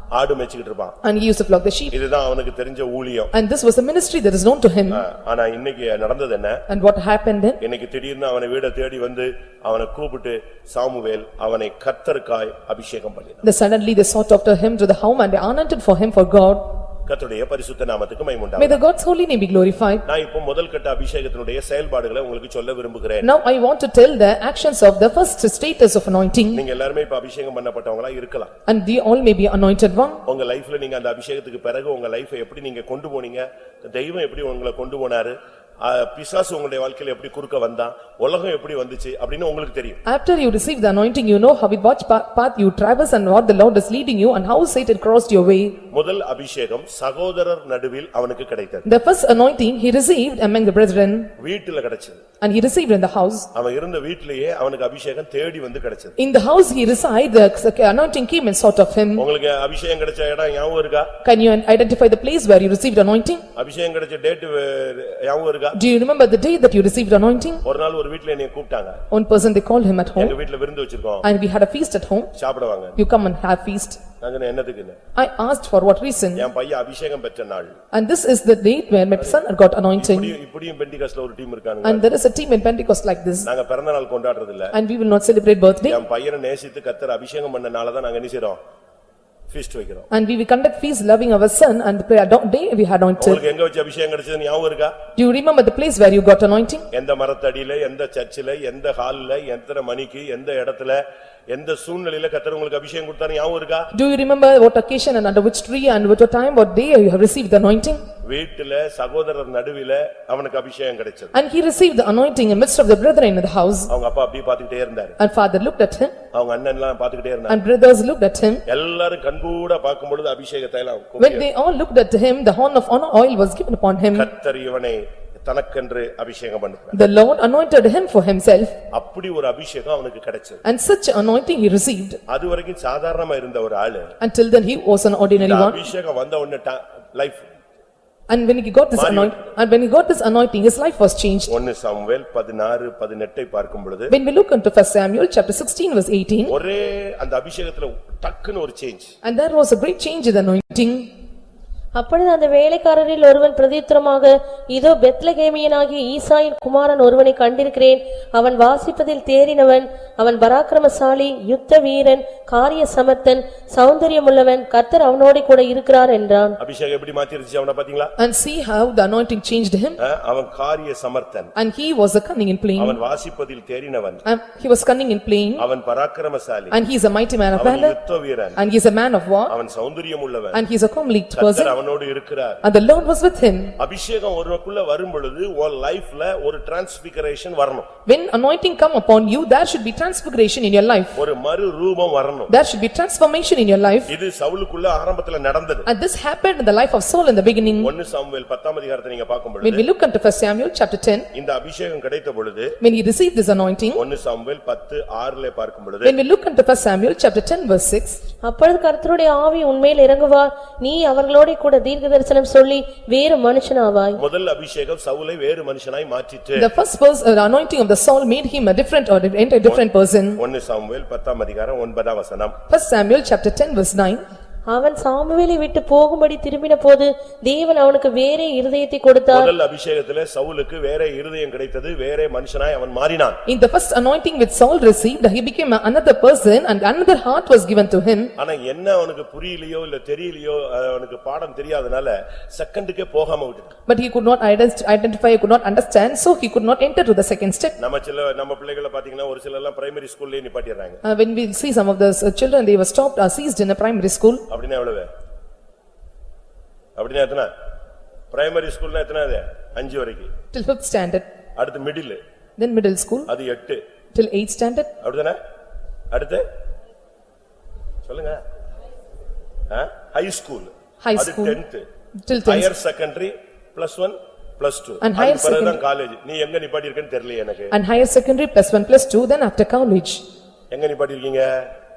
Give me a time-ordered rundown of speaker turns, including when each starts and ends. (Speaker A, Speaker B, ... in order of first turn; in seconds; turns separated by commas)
Speaker A: 0.1-0.9, Speaker B: 1.0-1.9, Speaker A: 1.9-3.3, Speaker B: 3.3-5.0, Speaker A: 4.9-6.6, Speaker B: 6.7-7.6, Speaker A: 7.6-13.4, Speaker B: 13.4-16.7, Speaker A: 17.1-18.8, Speaker B: 18.6-20.0, Speaker A: 20.1-23.3, Speaker B: 23.2-26.6, Speaker A: 26.5-28.5, Speaker B: 28.7-30.2, Speaker A: 30.2-40.0, Speaker B: 40.0-45.8, Speaker A: 45.9-48.9, Speaker B: 48.8-51.3, Speaker A: 51.4-52.2, Speaker B: 52.4-53.5, Speaker A: 53.5-56.1, Speaker B: 56.2-59.2, Speaker A: 59.1-61.1, Speaker B: 61.2-63.4, Speaker A: 63.5-65.8, Speaker B: 65.7-67.6, Speaker A: 67.6-69.0, Speaker B: 69.1-70.3, Speaker A: 70.2-71.3, Speaker B: 71.2-72.3, Speaker A: 72.3-73.0, Speaker B: 73.0-74.0, Speaker A: 74.2-75.0, Speaker B: 75.1-76.5, Speaker A: 76.3-77.8, Speaker B: 77.9-80.3, Speaker A: 80.0-82.1, Speaker B: 81.8-83.5, Speaker A: 83.5-84.7, Speaker B: 84.7-86.0, Speaker A: 85.8-88.6, Speaker A: 89.5-90.1, Speaker B: 90.1-93.4, Speaker A: 93.2-95.0, Speaker B: 95.2-96.8, Speaker A: 96.9-103.9, Speaker B: 103.9-108.0, Speaker A: 108.2-111.3, Speaker B: 111.3-113.9, Speaker A: 113.9-115.2, Speaker B: 115.2-116.1, Speaker A: 116.3-117.6, Speaker B: 117.5-118.6, Speaker A: 118.7-121.5, Speaker B: 121.2-124.3, Speaker A: 124.1-127.0, Speaker B: 126.9-128.7, Speaker A: 128.9-130.6, Speaker B: 130.6-132.2, Speaker A: 132.3-134.1, Speaker B: 134.2-135.9, Speaker A: 135.3-137.5, Speaker B: 138.3-141.5, Speaker A: 138.9-139.5, Speaker A: 141.5-144.1, Speaker B: 144.1-146.5, Speaker A: 146.5-149.1, Speaker B: 149.2-151.1, Speaker C: 151.9-166.6, Speaker A: 166.6-168.1, Speaker B: 168.2-170.0, Speaker A: 170.0-171.5, Speaker B: 171.5-173.0, Speaker A: 172.8-174.2, Speaker B: 174.2-175.6, Speaker A: 175.6-176.8, Speaker B: 176.7-178.0, Speaker A: 177.5-178.6, Speaker B: 178.6-179.5, Speaker A: 179.5-180.6, Speaker B: 180.5-181.7, Speaker A: 181.3-182.6, Speaker B: 182.6-183.8, Speaker A: 183.8-187.9, Speaker B: 188.1-191.2, Speaker A: 191.2-192.5, Speaker B: 192.5-194.1, Speaker A: 194.1-195.9, Speaker B: 195.8-197.9, Speaker A: 197.8-199.9, Speaker B: 199.6-201.3, Speaker A: 201.3-202.7, Speaker B: 202.8-204.0, Speaker A: 203.9-206.2, Speaker B: 206.0-208.2, Speaker C: 208.4-214.2, Speaker A: 214.2-216.7, Speaker B: 216.6-220.4, Speaker A: 219.6-222.6, Speaker B: 222.7-224.2, Speaker C: 224.7-229.5, Speaker A: 229.3-233.4, Speaker B: 233.5-238.3, Speaker A: 238.4-243.7, Speaker B: 243.9-247.8, Speaker A: 247.8-251.0, Speaker B: 251.0-254.4, Speaker A: 254.5-255.1, Speaker A: 256.9-257.5, Speaker A: 258.3-260.3, Speaker B: 260.5-261.2, Speaker A: 261.6-262.2, Speaker B: 262.6-263.3, Speaker A: 263.3-263.8, Speaker B: 264.1-264.9, Speaker A: 265.0-265.4, Speaker A: 266.1-266.4, Speaker A: 268.1-268.4, Speaker A: 269.7-271.9, Speaker B: 271.0-271.6, Speaker B: 272.2-272.7, Speaker A: 272.4-277.8, Speaker B: 275.0-275.8, Speaker B: 277.7-280.2, Speaker A: 280.7-281.7